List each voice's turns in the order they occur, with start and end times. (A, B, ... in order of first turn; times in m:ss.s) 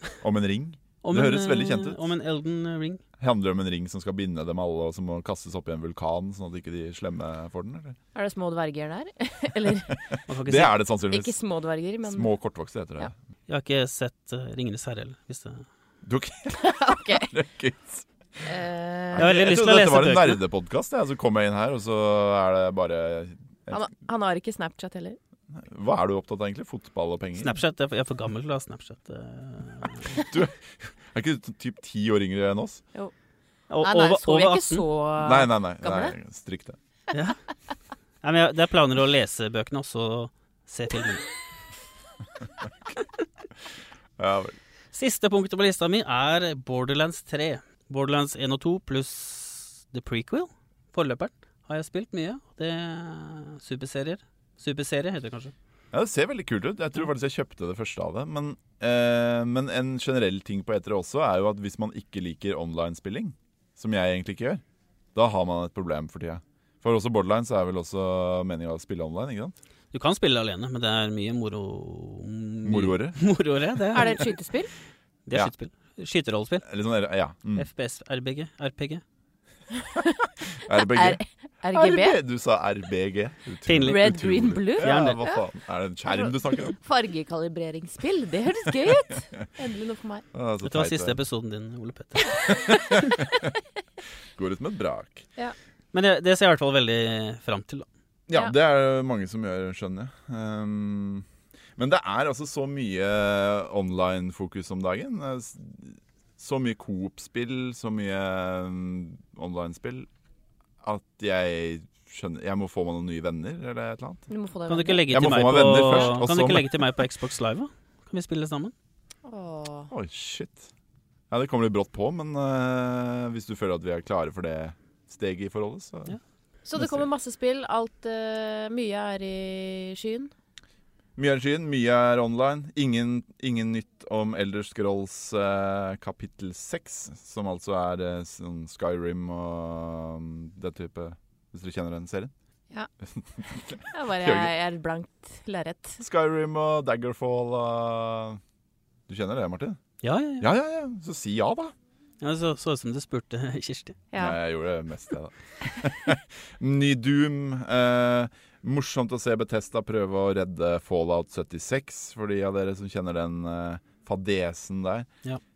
0:00.2-0:02.0 A
0:01.0-0:03.0 B
0:03.2-0:08.0 A
0:08.2-0:10.0 C
0:09.9-0:11.3 A
0:10.3-0:10.7 B
0:11.1-0:12.3 C
0:12.0-0:13.1 A
0:13.5-0:15.6 B
0:16.0-0:18.1 A
0:16.6-0:17.4 C
0:18.4-0:19.3 C
0:19.1-0:23.8 A
0:19.2-0:20.4 B
0:23.7-0:25.2 C
0:25.5-0:27.5 A
0:27.4-0:30.2 B
0:30.3-0:32.8 A
0:33.7-0:34.8 B
0:33.8-0:36.2 C
0:35.2-0:36.8 A
0:37.1-0:37.4 B
0:38.2-0:41.4 B
0:44.2-0:44.6 A
0:44.9-0:55.5 B
0:55.9-1:04.6 A
1:05.2-1:09.6 A
1:09.9-1:14.3 B
1:12.6-1:13.2 A
1:13.9-1:14.7 C
1:15.3-1:16.7 B
1:16.6-1:17.7 A
1:17.6-1:19.0 B
1:19.8-1:22.2 C
1:20.5-1:26.8 A
1:23.7-1:24.2 B
1:23.8-1:25.4 C
1:24.8-1:25.2 B
1:26.1-1:30.3 C
1:30.3-1:31.2 A
1:30.6-1:32.7 B
1:32.2-1:33.2 C
1:32.6-1:33.3 A
1:34.4-1:35.2 A
1:35.9-1:37.9 B
1:38.3-1:50.1 A
1:50.8-1:54.3 A
1:54.3-1:56.2 C
1:54.7-1:58.7 B
1:55.1-1:56.8 A
1:59.2-1:59.9 C
1:59.9-2:00.7 A
2:01.3-2:06.2 A
2:06.6-2:10.3 C
2:06.8-2:07.0 A
2:11.2-2:22.3 A
2:23.1-2:24.5 A
2:23.9-2:26.0 C
2:26.0-2:28.4 A
2:29.1-2:29.8 A
2:30.0-2:30.5 B
2:30.4-2:31.7 A
2:32.2-2:34.0 B
2:34.1-2:34.4 C
2:34.2-2:45.1 A